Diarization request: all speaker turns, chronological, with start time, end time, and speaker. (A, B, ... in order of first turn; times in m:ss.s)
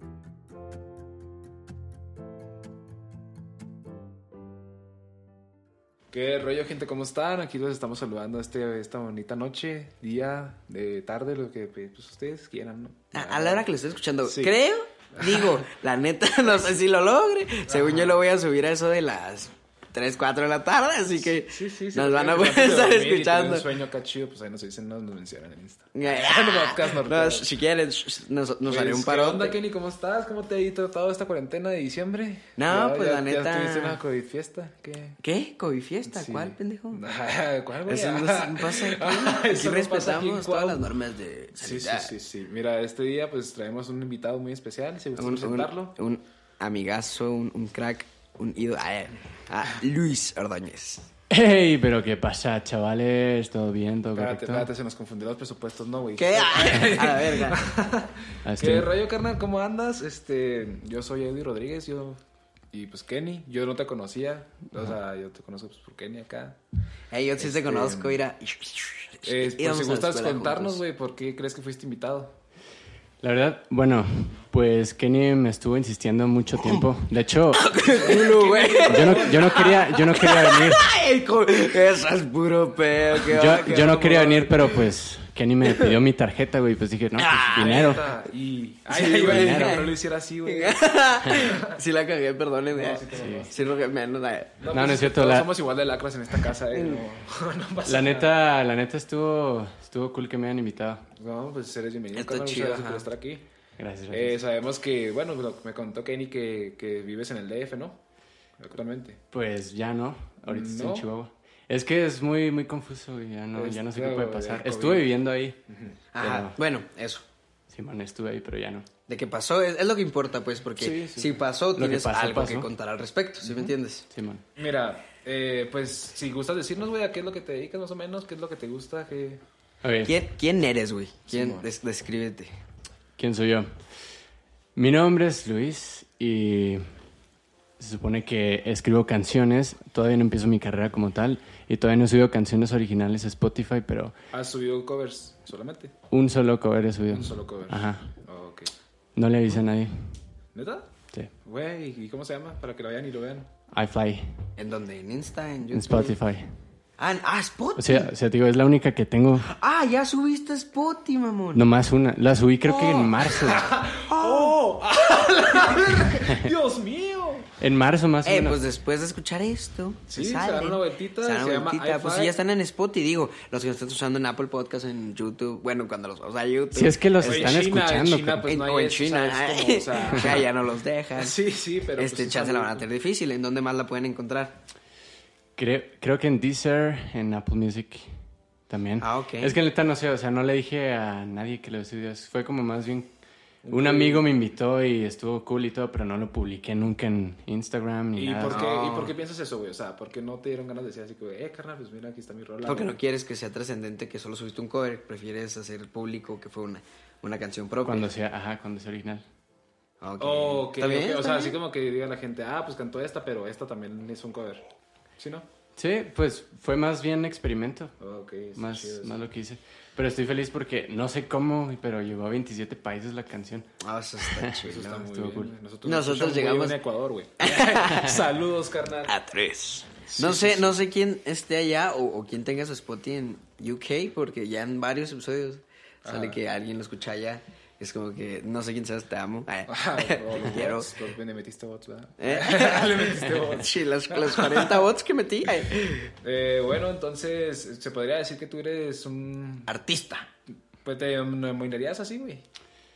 0:06.1-0:13.6 A
0:13.1-0:23.7 B
0:14.3-0:14.6 A
0:15.2-0:15.6 A
0:17.7-0:18.2 A
0:21.4-0:27.5 A
0:25.9-0:29.6 B
0:28.7-0:35.2 A
0:32.6-0:34.0 B
0:35.2-0:37.0 B
0:36.1-0:40.9 A
0:37.9-0:42.1 B
0:41.6-0:46.0 A
0:45.2-0:51.1 B
0:51.3-0:54.7 C
0:54.2-1:02.2 A
0:56.2-0:57.7 B
0:58.4-0:58.9 C
1:02.7-1:06.6 A
1:07.1-1:10.8 B
1:07.4-1:08.2 A
1:09.3-1:12.4 A
1:13.2-1:17.7 C
1:17.5-1:24.5 B
1:17.8-1:19.7 A
1:18.9-1:20.9 C
1:23.3-1:28.0 C
1:23.8-1:24.7 A
1:27.2-1:28.0 B
1:27.6-1:30.9 A
1:28.9-1:34.6 B
1:29.3-1:29.8 C
1:31.4-1:31.8 A
1:32.7-1:33.6 A
1:33.1-1:33.5 C
1:34.6-1:38.3 A
1:34.7-1:35.5 C
1:36.7-1:37.0 B
1:37.8-1:41.0 C
1:41.2-1:43.4 A
1:42.1-1:43.1 B
1:43.8-1:44.4 C
1:44.1-1:48.0 A
1:48.6-1:49.2 A
1:49.3-1:55.6 C
1:50.4-1:51.1 A
1:53.6-1:55.1 A
1:55.7-1:56.0 A
1:56.1-1:57.2 B
1:56.2-1:56.6 C
1:57.7-1:58.9 C
1:59.1-2:04.1 B
2:00.8-2:02.7 C
2:03.4-2:04.4 C
2:04.6-2:09.4 A
2:09.8-2:10.1 C
2:10.0-2:12.5 B
2:11.3-2:11.7 A
2:13.2-2:13.7 C
2:14.8-2:16.8 C
2:17.8-2:24.2 C
2:24.3-2:25.9 A
2:26.1-2:28.1 C
2:27.1-2:28.7 A
2:29.2-2:30.2 C
2:30.5-2:30.9 A
2:31.4-2:33.5 A
2:33.7-2:34.4 C
2:34.6-2:36.2 B
2:35.7-2:36.5 C
2:37.0-2:38.1 B
2:37.8-2:39.5 C
2:39.5-2:41.6 B
2:41.5-2:43.7 C
2:42.7-2:44.6 B
2:43.4-2:47.5 A
2:45.7-2:46.1 B
2:46.3-2:46.5 C
2:47.6-2:48.6 C
2:48.2-2:57.6 B
2:50.1-2:52.4 A
2:56.7-2:58.5 C
2:57.2-3:00.5 A
2:58.5-3:01.3 B
3:01.2-3:02.9 A
3:02.0-3:04.6 B
3:05.6-3:08.1 C
3:08.7-3:13.1 C
3:09.0-3:09.6 B
3:13.6-3:14.3 A
3:13.7-3:18.6 C
3:18.2-3:23.0 A
3:18.5-3:19.1 B
3:22.6-3:28.1 B
3:27.8-3:29.2 C
3:30.0-3:31.6 B
3:30.2-3:34.6 A
3:35.2-3:35.4 A
3:35.8-3:37.9 C
3:38.0-3:39.2 A
3:38.6-3:45.5 C
3:43.8-3:45.1 B
3:44.6-3:49.1 A
3:45.8-3:46.8 B
3:47.4-3:48.2 B
3:49.1-4:00.9 B
3:50.1-3:50.8 A
3:56.0-3:56.4 A
3:59.7-4:04.9 A
4:02.2-4:06.1 B
4:06.2-4:09.7 A
4:09.7-4:10.3 B
4:10.8-4:12.4 A